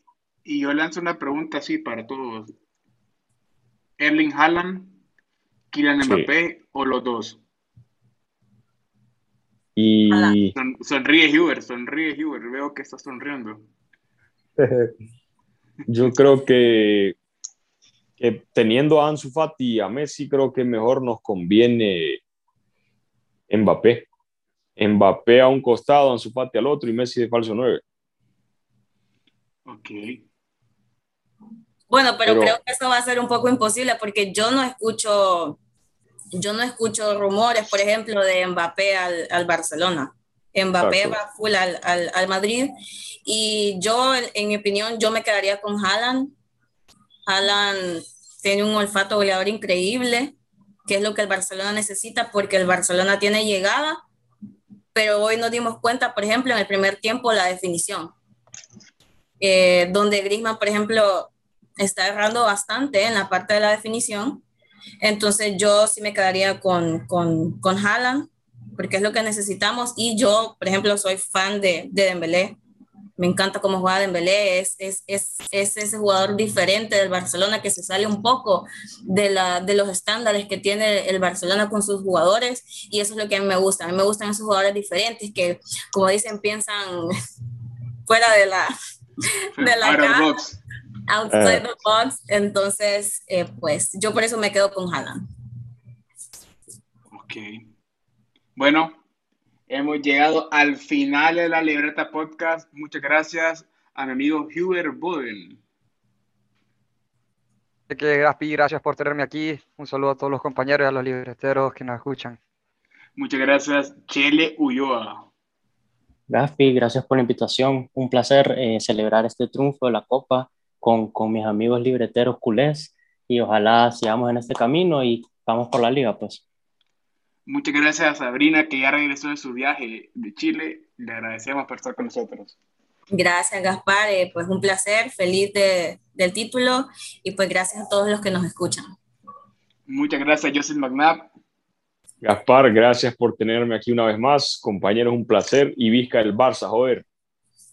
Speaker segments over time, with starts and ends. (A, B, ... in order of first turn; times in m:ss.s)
0:00.4-0:02.5 A
0:04.0-0:05.0 A
0:05.7-0:07.4 A
0:06.0-0:06.3 B
0:09.8-0:10.5 B
0:10.6-0:13.7 A
0:14.6-0:14.9 B
0:15.9-0:17.2 B
0:18.2-0:22.2 B
0:23.5-0:24.1 B
0:24.8-0:27.8 B
0:29.7-0:30.2 A
0:31.9-0:35.6 C
0:32.2-0:32.6 B
0:36.4-0:42.7 C
0:40.8-0:41.2 B
0:43.3-0:46.3 C
0:47.3-0:50.4 C
0:50.9-0:54.0 C
0:55.0-0:58.2 C
0:59.4-1:04.4 C
1:05.0-1:12.6 C
1:13.2-1:27.1 C
1:28.1-1:28.7 C
1:29.6-1:30.6 A
1:29.6-1:30.3 C
1:31.1-1:35.2 C
1:31.3-1:31.7 B
1:37.1-1:37.6 A
1:38.6-1:39.0 A
1:39.7-1:45.6 A
1:47.9-1:52.4 D
1:53.2-1:55.3 A
1:56.3-2:06.4 E
2:07.5-2:12.6 A
2:13.1-2:18.9 C
2:19.9-2:21.3 A
2:22.2-2:27.0 B